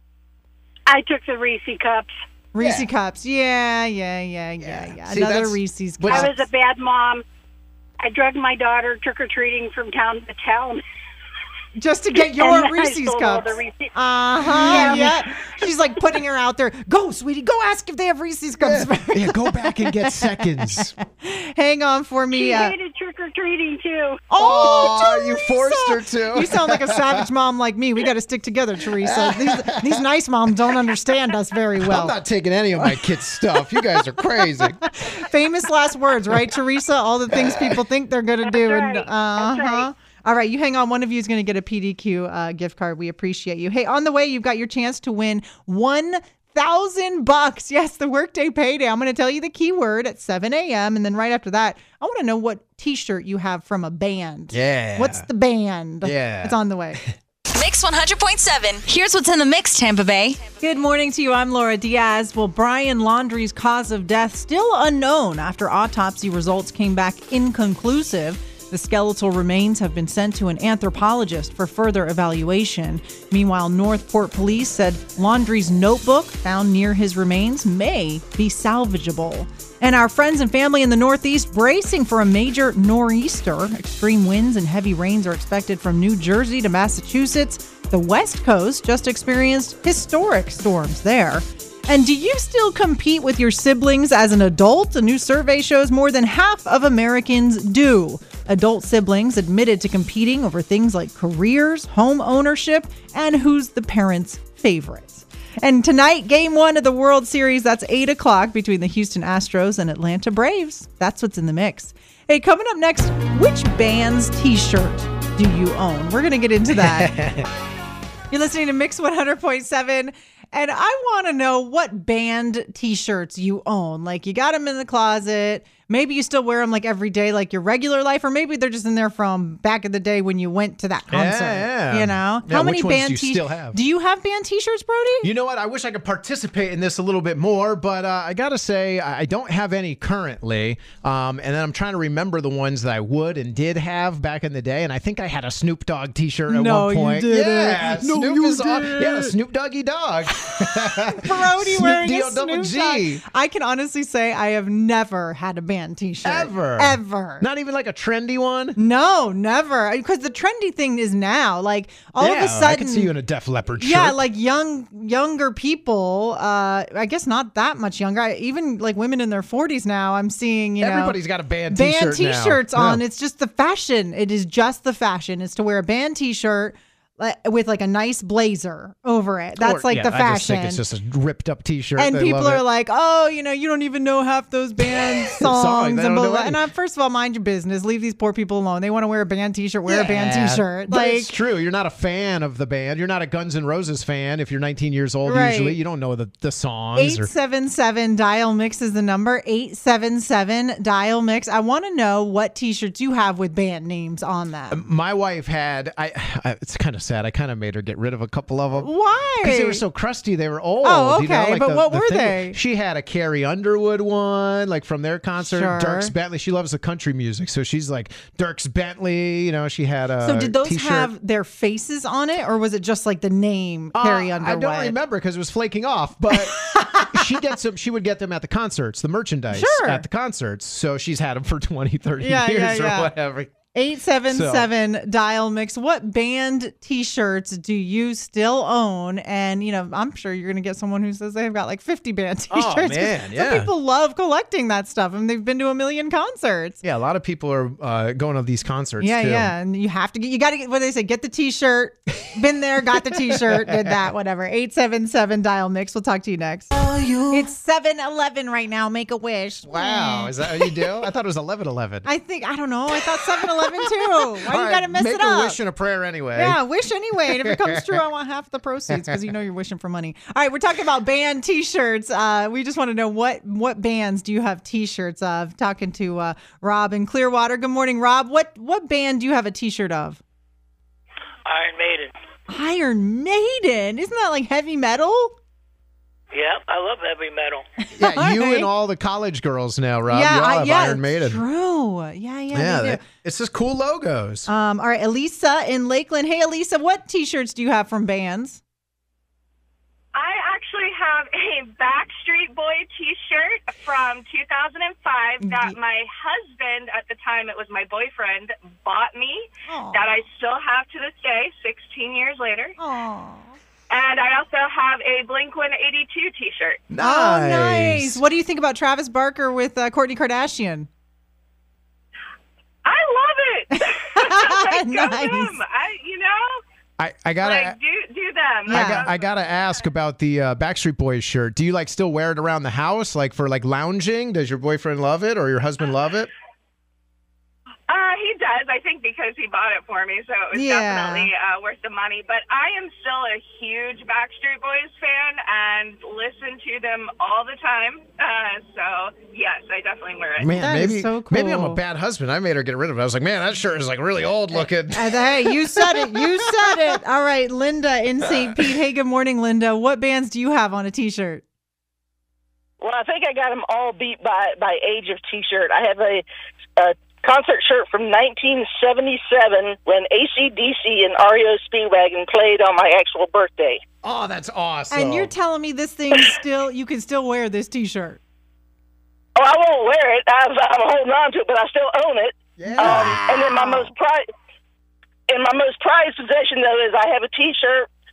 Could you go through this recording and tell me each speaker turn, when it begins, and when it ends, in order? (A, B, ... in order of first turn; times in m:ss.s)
0:00.9-0:02.1 A
0:02.5-0:06.5 B
0:02.6-0:02.9 C
0:04.6-0:06.3 C
0:06.1-0:07.2 A
0:08.0-0:10.8 A
0:11.8-0:22.8 B
0:12.2-0:13.9 A
0:14.5-0:15.1 C
0:14.5-0:15.2 A
0:18.6-0:21.0 C
0:22.3-0:24.2 A
0:24.3-0:32.2 B
0:24.4-0:27.2 C
0:29.0-0:30.0 C
0:31.8-0:34.9 C
0:33.8-0:57.0 B
0:37.3-0:37.8 C
0:38.6-0:39.9 A
0:54.5-0:55.3 C
0:56.0-0:57.1 C
0:57.5-1:00.4 D
1:00.6-1:57.1 B
1:56.7-1:57.5 C
1:58.3-2:15.3 B
2:11.1-2:13.8 C
2:15.2-2:33.2 C
2:26.5-2:29.4 B
2:30.4-2:37.4 B
2:36.2-2:38.8 C
2:38.8-2:43.1 B
2:42.2-2:44.2 C
2:43.8-2:51.2 B
2:50.8-2:53.0 C
2:51.7-3:00.8 B
2:59.6-3:02.6 C
3:02.0-3:11.3 B
3:05.0-3:06.6 C
3:09.9-3:17.3 C
3:15.2-3:15.8 B
3:17.0-3:24.8 B
3:24.7-3:28.9 C
3:28.8-3:29.8 B
3:29.4-3:41.1 C
3:30.8-3:32.6 B
3:35.4-3:36.1 B
3:40.2-3:45.0 B
3:43.9-3:53.5 C
3:46.4-3:47.3 B
3:49.5-3:50.1 B
3:52.2-3:53.1 B
3:53.7-4:06.8 B
3:54.3-3:54.7 C
4:02.5-4:03.7 C
4:06.8-4:09.5 C
4:09.0-4:16.7 B
4:13.4-4:13.9 C
4:16.8-4:17.4 C
4:17.3-4:20.8 B
4:19.7-4:22.1 C
4:22.0-4:25.6 B
4:23.4-4:26.6 C
4:26.4-4:40.2 B
4:27.2-4:27.9 C
4:41.5-4:42.1 E
4:42.5-4:45.4 B
4:46.3-4:47.6 E
4:48.0-4:48.7 B
4:48.0-4:51.4 C
4:50.1-4:53.0 B
4:52.5-4:54.5 C
4:54.5-4:58.6 B
5:00.2-5:12.8 F
5:05.4-5:05.8 B
5:09.7-5:10.2 B
5:12.8-5:13.6 B
5:13.9-5:16.8 F
5:16.9-5:18.2 C
5:17.0-5:20.9 B
5:22.8-5:26.6 F
5:23.7-5:25.6 B
5:27.0-5:27.8 C
5:27.4-5:29.7 F
5:28.7-5:29.1 B
5:28.7-5:36.3 C
5:37.9-5:50.5 F
5:40.5-5:41.3 B
5:50.4-5:56.7 C
5:50.6-5:51.8 B
5:54.5-6:01.4 B
6:02.8-6:06.2 G
6:06.8-6:13.8 G
6:14.0-6:15.3 C
6:14.9-6:18.2 B
6:19.4-6:24.3 G
6:22.6-6:23.2 C
6:22.6-6:23.9 B
6:25.3-6:27.9 G